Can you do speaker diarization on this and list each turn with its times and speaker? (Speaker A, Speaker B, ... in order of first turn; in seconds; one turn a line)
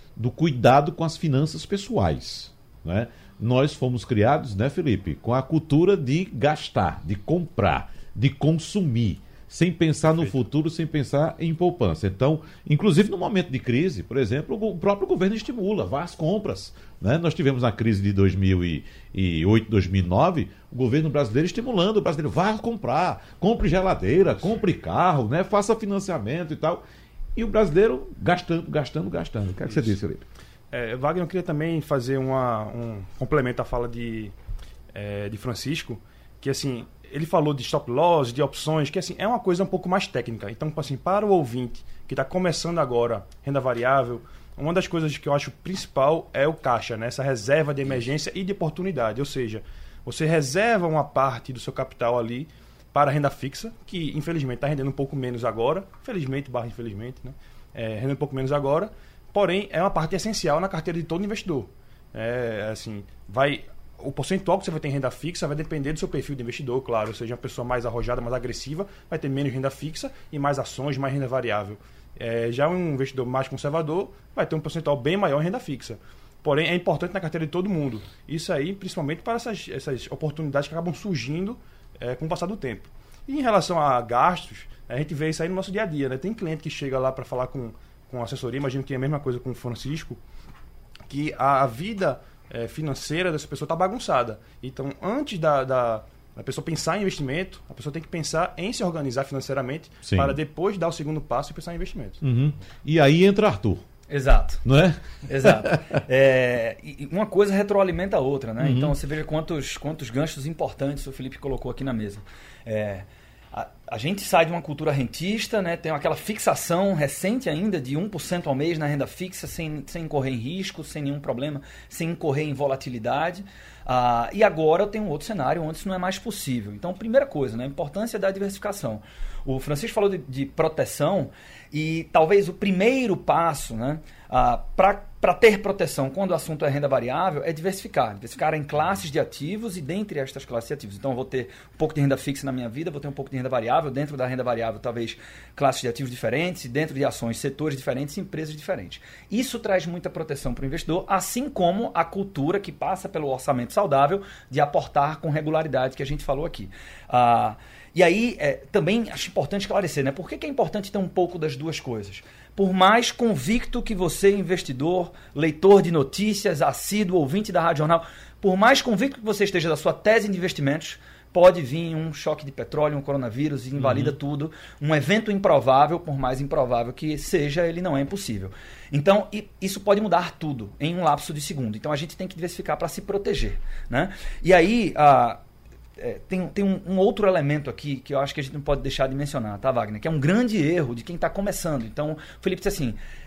Speaker A: 0.2-26.8
Speaker A: 27.4-30.3
Speaker B: 30.7-34.3
Speaker B: 34.9-90.2
Speaker B: 91.1-102.2
Speaker A: 100.0-100.4
Speaker A: 102.2-103.8
Speaker C: 104.1-104.6
Speaker A: 104.7-106.0
Speaker C: 105.3-185.4
Speaker A: 108.6-108.9
Speaker A: 173.8-174.2
Speaker C: 186.0-193.0